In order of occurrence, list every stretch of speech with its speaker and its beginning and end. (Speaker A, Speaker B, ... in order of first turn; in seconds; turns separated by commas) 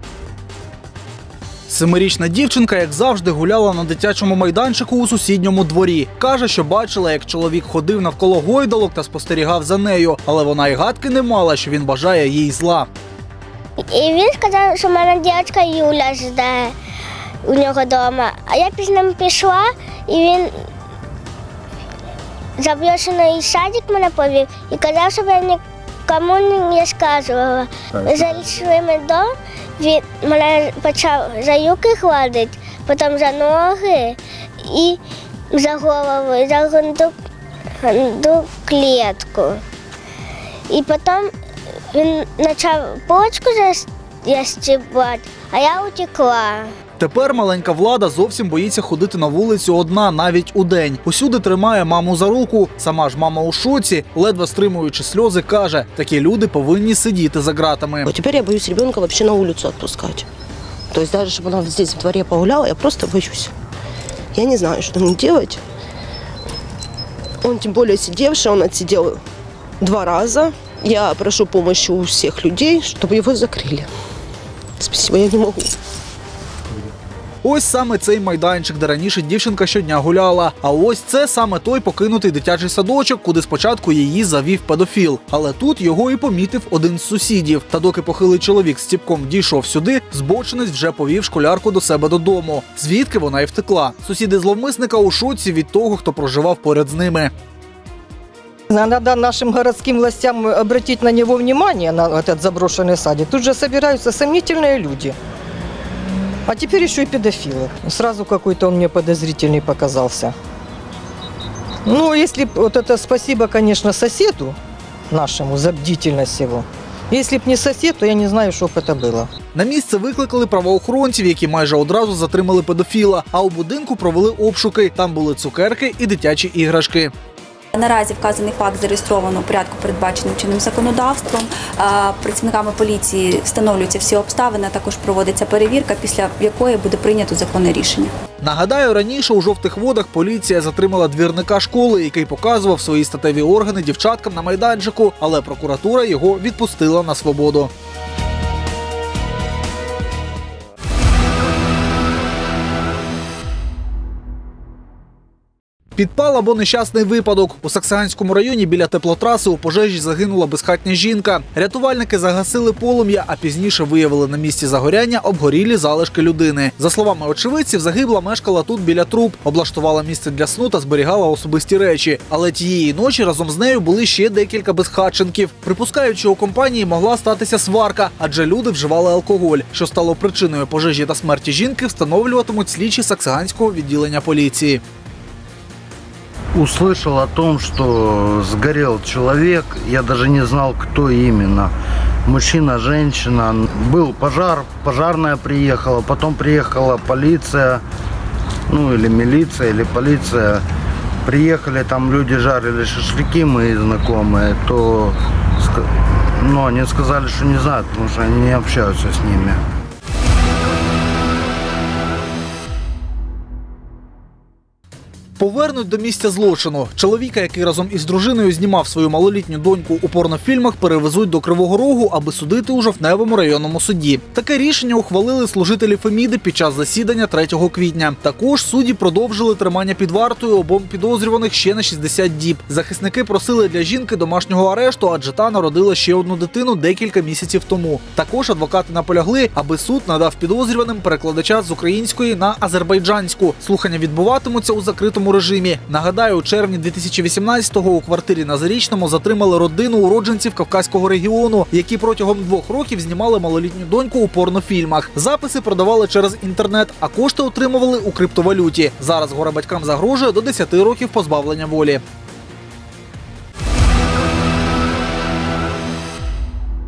Speaker A: 1.7-12.9, Speaker B: 13.8-16.7, Speaker B: 17.4-20.6, Speaker B: 22.6-37.1, Speaker B: 37.8-39.6, Speaker B: 40.7-41.3, Speaker B: 41.9-46.7, Speaker A: 47.0-58.1, Speaker C: 58.0-60.3, Speaker C: 60.9-63.5, Speaker C: 64.3-65.6, Speaker C: 67.4-69.2, Speaker C: 69.8-73.9, Speaker C: 74.8-75.7, Speaker A: 77.4-97.3, Speaker D: 98.7-105.2, Speaker D: 106.5-110.3, Speaker D: 111.8-114.5, Speaker D: 115.1-119.3, Speaker A: 119.5-127.1, Speaker E: 127.7-138.1, Speaker A: 138.4-147.7, Speaker A: 156.0-184.8, Speaker F: 186.5-191.7, Speaker F: 192.3-197.8, Speaker F: 198.7-200.6, Speaker F: 201.2-209.6, Speaker A: 215.4-262.0